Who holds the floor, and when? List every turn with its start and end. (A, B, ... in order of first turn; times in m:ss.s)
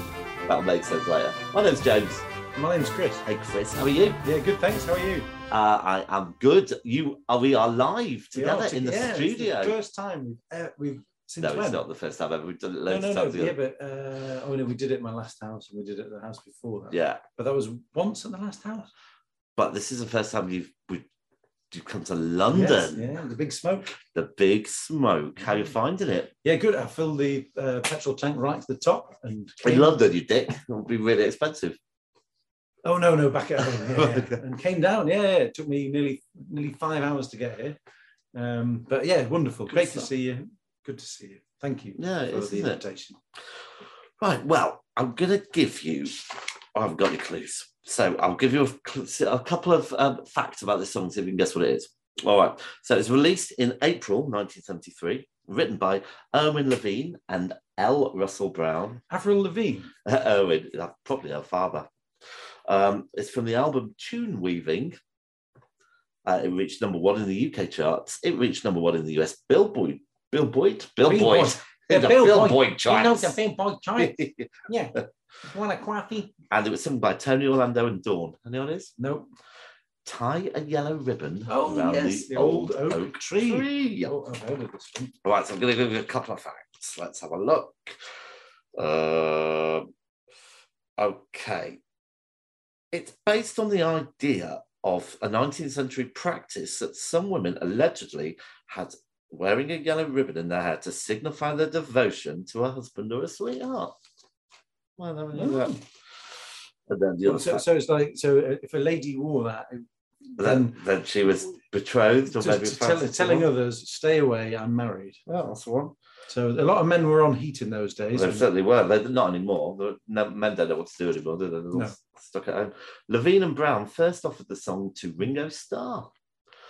0:00.5-0:02.2 A
0:02.5-0:03.2 B
0:03.2-0:04.2 A
0:04.2-0:05.3 B
0:05.5-0:09.7 A
0:08.3-0:11.8 B
0:11.4-0:13.6 A
0:12.9-0:18.9 B
0:16.9-0:17.2 A
0:19.6-0:21.1 A
0:21.7-0:23.1 A
0:22.5-0:24.0 B
0:24.1-0:26.3 A
0:26.4-0:30.0 B
0:29.6-0:31.8 A
0:32.8-0:37.8 B
0:33.7-0:34.4 A
0:38.3-0:43.2 B
0:39.7-0:40.1 A
0:42.0-0:42.8 A
0:44.2-0:46.2 A
0:46.7-0:59.0 A
0:59.1-0:59.9 B
1:00.0-1:01.9 A
1:02.7-1:05.0 A
1:06.2-1:13.4 A
1:11.0-1:16.3 B
1:14.0-1:15.0 A
1:16.5-1:18.9 A
1:19.0-1:19.3 B
1:20.0-1:24.1 A
1:21.5-1:25.1 B
1:25.2-1:28.0 A
1:28.8-1:29.9 A
1:31.0-1:31.8 A
1:32.9-1:44.0 A
1:45.0-1:45.7 A
1:45.3-1:45.8 B
1:46.9-1:47.6 A
1:47.2-1:50.8 B
1:50.4-1:53.5 A
1:52.3-1:55.2 B
1:55.3-1:55.9 A
1:56.3-1:58.5 B
1:58.1-2:06.1 A